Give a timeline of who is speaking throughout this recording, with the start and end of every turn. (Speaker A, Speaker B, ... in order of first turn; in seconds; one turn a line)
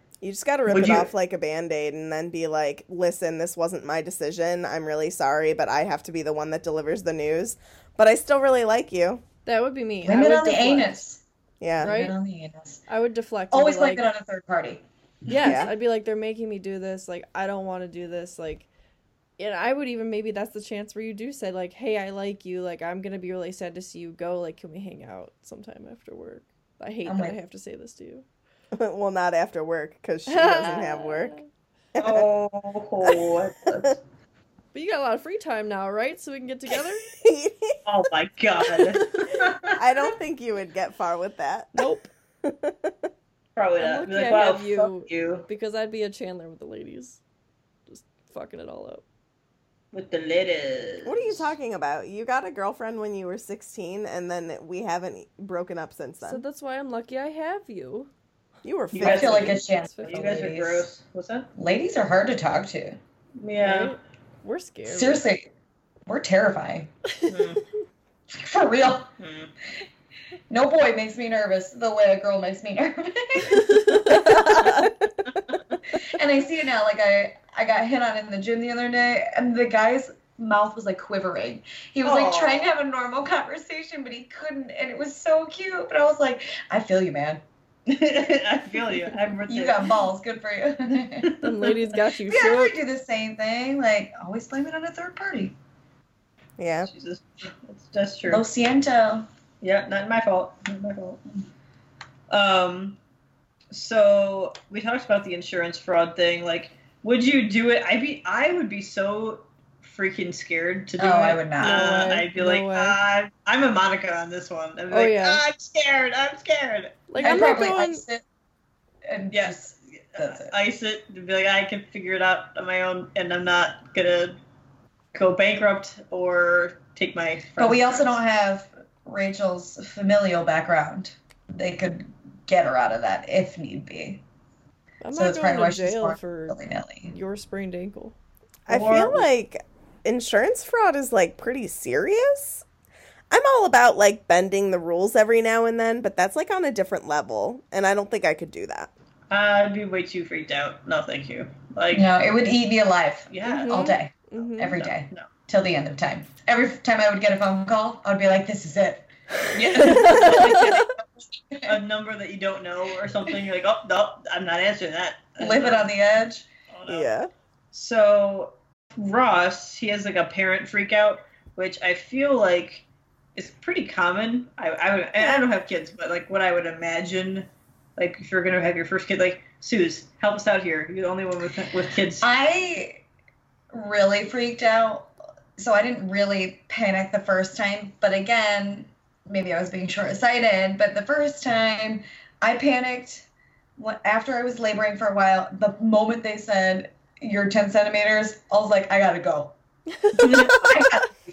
Speaker A: 0.2-9.2
Speaker B: 0.7-1.1
Speaker C: 9.5-11.0
Speaker D: 10.0-11.2
Speaker A: 11.6-12.0
Speaker D: 11.8-12.8
Speaker C: 11.8-12.1
Speaker C: 12.9-14.1
Speaker D: 13.5-14.8
Speaker C: 15.3-18.7
Speaker A: 15.4-15.7
Speaker C: 19.4-28.2
Speaker D: 27.1-27.4
Speaker A: 28.7-31.4
Speaker C: 30.3-31.5
Speaker A: 31.9-32.3
Speaker B: 32.0-34.0
Speaker A: 33.0-33.9
Speaker C: 34.7-37.1
Speaker A: 37.1-37.8
Speaker B: 37.9-39.7
Speaker A: 38.6-39.0
Speaker A: 39.7-43.1
Speaker C: 41.8-42.1
Speaker B: 43.6-45.5
Speaker C: 43.8-47.2
Speaker C: 47.9-49.0
Speaker B: 49.9-51.5
Speaker A: 51.0-56.4
Speaker C: 56.2-58.1
Speaker A: 58.6-59.6
Speaker D: 59.0-60.9
Speaker C: 59.0-60.5
Speaker B: 59.0-61.5
Speaker D: 61.6-63.0
Speaker B: 63.4-64.0
Speaker C: 63.6-65.2
Speaker D: 64.8-65.5
Speaker D: 66.1-66.9
Speaker C: 67.2-67.6
Speaker B: 67.3-67.6
Speaker D: 68.3-69.1
Speaker B: 69.2-69.5
Speaker D: 70.5-74.8
Speaker C: 73.9-74.8
Speaker A: 74.2-74.7
Speaker D: 76.0-87.4
Speaker B: 82.0-82.7
Speaker B: 87.9-90.0
Speaker D: 89.5-91.3
Speaker B: 91.2-91.7
Speaker C: 91.4-92.8
Speaker D: 92.3-95.5
Speaker A: 96.6-96.9
Speaker B: 96.9-98.4
Speaker D: 98.3-99.3
Speaker B: 99.6-101.2
Speaker B: 102.3-103.0
Speaker B: 103.7-117.0
Speaker D: 111.0-112.1
Speaker C: 111.6-113.0
Speaker C: 114.9-115.4
Speaker C: 117.1-118.0
Speaker D: 117.2-118.2
Speaker D: 119.1-120.5
Speaker B: 119.3-119.6
Speaker B: 120.1-124.4
Speaker B: 125.1-128.2
Speaker D: 127.6-134.2
Speaker C: 135.0-138.2
Speaker D: 135.1-137.1
Speaker A: 138.7-142.7
Speaker B: 138.7-139.3
Speaker A: 143.3-148.9
Speaker B: 149.3-152.1
Speaker D: 151.9-159.1
Speaker B: 153.3-154.0
Speaker C: 153.7-154.6
Speaker A: 154.3-154.7
Speaker B: 154.6-155.3
Speaker B: 159.5-161.0
Speaker D: 159.7-160.9
Speaker A: 160.1-160.5
Speaker B: 161.6-165.9
Speaker D: 165.4-166.5
Speaker B: 166.7-167.1
Speaker A: 166.9-167.3
Speaker B: 167.7-172.8
Speaker B: 173.4-177.5
Speaker B: 178.0-182.3
Speaker D: 182.2-183.0
Speaker D: 183.7-199.6
Speaker B: 200.2-201.1
Speaker D: 200.5-201.1